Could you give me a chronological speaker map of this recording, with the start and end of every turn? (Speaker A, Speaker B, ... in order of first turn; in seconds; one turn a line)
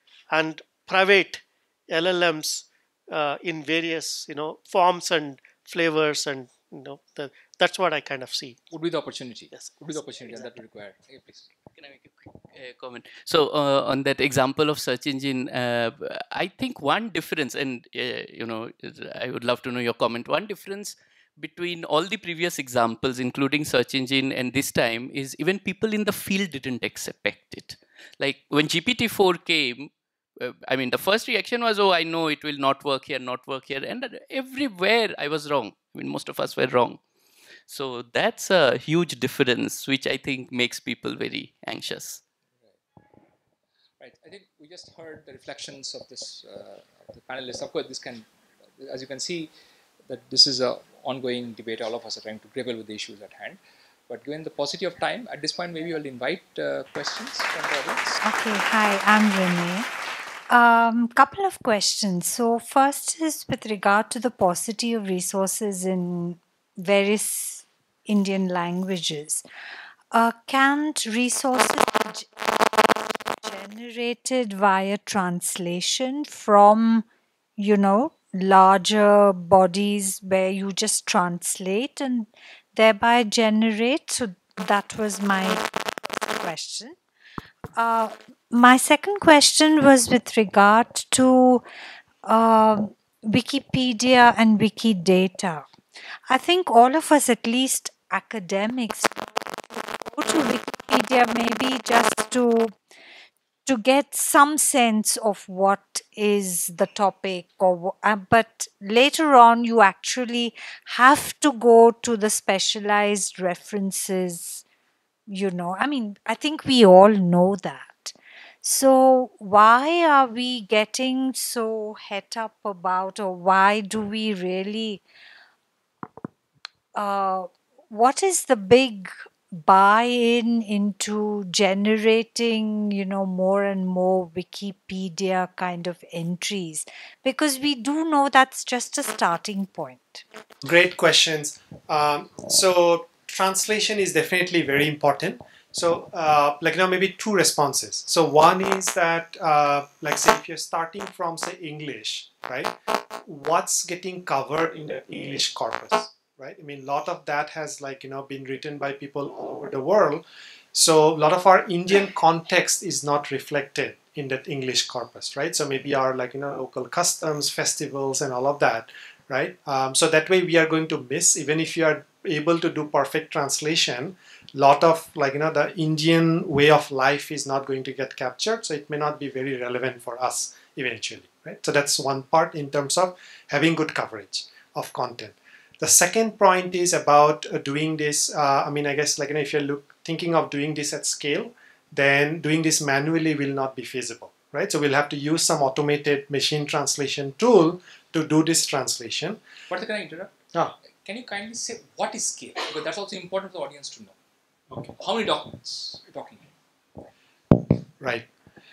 Speaker A: 0.3-8.6
Speaker B: 8.7-11.5
Speaker A: 9.5-10.5
Speaker C: 11.8-37.0
Speaker C: 37.7-42.2
Speaker B: 44.0-49.5
Speaker B: 50.1-58.2
Speaker D: 58.2-59.9
Speaker D: 60.5-69.4
Speaker D: 70.1-72.3
Speaker D: 73.4-77.1
Speaker D: 77.6-87.0
Speaker D: 87.8-91.6
Speaker D: 92.3-95.7
Speaker D: 96.3-102.7
Speaker D: 103.7-114.6
Speaker D: 115.3-125.0
Speaker D: 126.9-140.2
Speaker E: 140.6-152.7
Speaker E: 153.3-160.2
Speaker E: 160.7-199.4
Speaker B: 199.7-200.3
Speaker B: 200.8-204.2
Speaker B: 205.0-206.5
Speaker E: 208.0-208.3